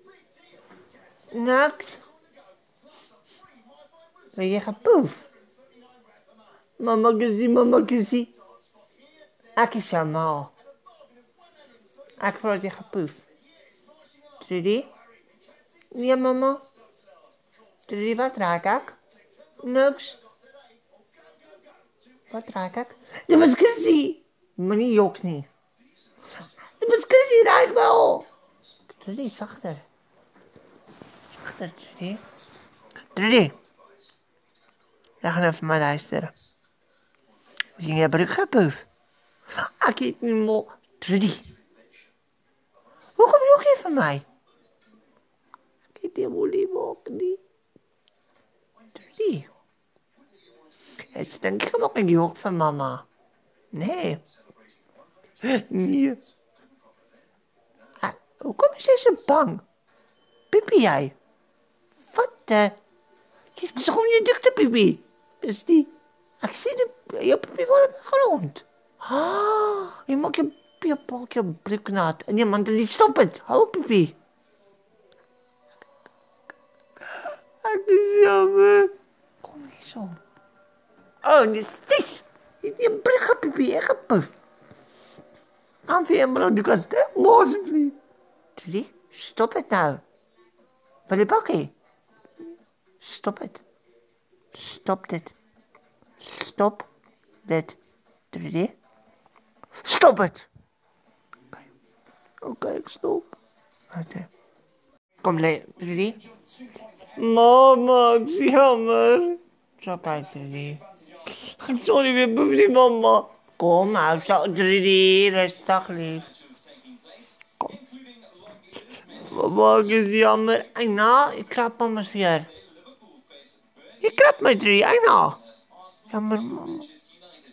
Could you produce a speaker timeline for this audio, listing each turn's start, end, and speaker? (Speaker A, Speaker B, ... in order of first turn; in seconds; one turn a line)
Speaker A: 1.3-2.0
Speaker A: 4.3-5.2
Speaker A: 6.8-8.3
Speaker A: 9.6-10.5
Speaker A: 12.2-13.2
Speaker A: 14.4-14.9
Speaker A: 15.9-16.6
Speaker A: 17.9-19.0
Speaker A: 19.6-20.2
Speaker A: 22.3-25.5
Speaker A: 26.8-28.3
Speaker A: 28.9-29.8
Speaker A: 31.4-32.2
Speaker A: 33.1-33.5
Speaker A: 35.2-36.3
Speaker A: 37.8-38.9
Speaker A: 39.5-41.4
Speaker A: 43.1-44.2
Speaker A: 45.9-47.4
Speaker A: 49.0-49.5
Speaker A: 51.1-53.1
Speaker A: 53.7-54.2
Speaker A: 55.4-56.2
Speaker A: 58.0-59.6
Speaker A: 60.5-61.1
Speaker A: 62.1-62.8
Speaker A: 63.5-74.2
Speaker A: 77.6-80.2
Speaker A: 81.2-84.3
Speaker A: 85.8-88.0
Speaker A: 88.5-90.0
Speaker A: 91.1-91.7
Speaker A: 93.0-93.6
Speaker A: 94.5-95.3
Speaker A: 96.2-96.9
Speaker A: 97.4-97.8
Speaker A: 98.3-98.7
Speaker A: 99.8-100.5
Speaker A: 102.4-103.3
Speaker A: 103.9-104.3
Speaker A: 105.2-106.2
Speaker A: 107.2-110.8
Speaker A: 111.4-116.3
Speaker A: 119.1-122.5
Speaker A: 124.0-125.4
Speaker A: 126.1-126.9